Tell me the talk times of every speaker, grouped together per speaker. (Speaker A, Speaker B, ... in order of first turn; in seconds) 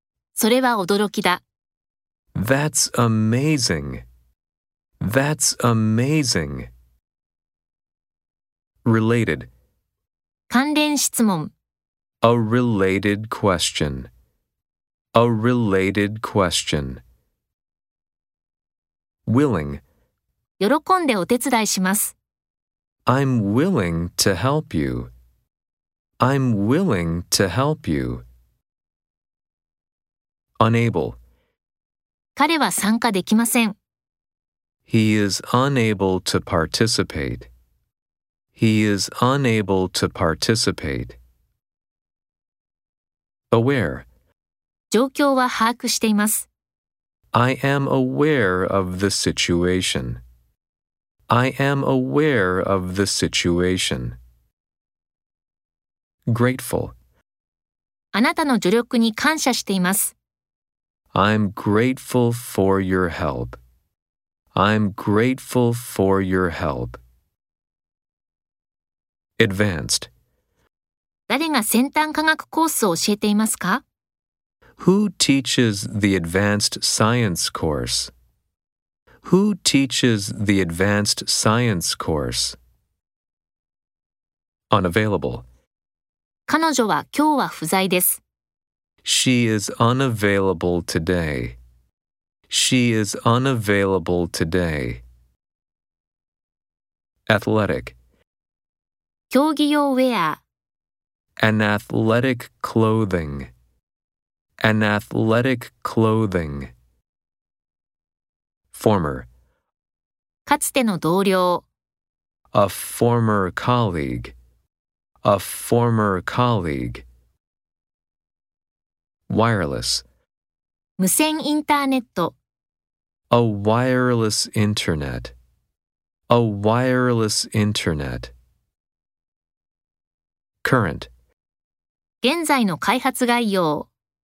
Speaker A: 0.3-1.4, 10.5-11.5, 20.6-22.1, 32.4-33.8, 44.9-46.5, 58.1-60.1, 71.3-73.8, 86.5-88.2, 99.3-100.4, 110.5-111.7, 121.0-122.3, 132.2-133.9
Speaker B: 2.3-4.0, 5.0-6.7, 8.8-9.5, 12.2-14.1, 15.1-17.0, 19.3-19.8, 23.1-25.1, 26.2-28.2, 30.6-31.2, 34.9-37.5, 38.5-41.2, 43.5-44.1, 47.3-50.2, 51.3-54.2, 56.3-56.9, 61.1-63.6, 64.5-67.0, 69.4-70.1, 74.8-78.1, 79.2-82.6, 84.7-85.4, 89.0-91.6, 92.5-95.0, 97.3-98.0, 101.4-103.5, 104.6-106.7, 108.7-109.3, 112.5-114.3, 115.2-117.0, 119.3-120.0, 123.3-125.3, 126.3-128.3, 130.6-131.1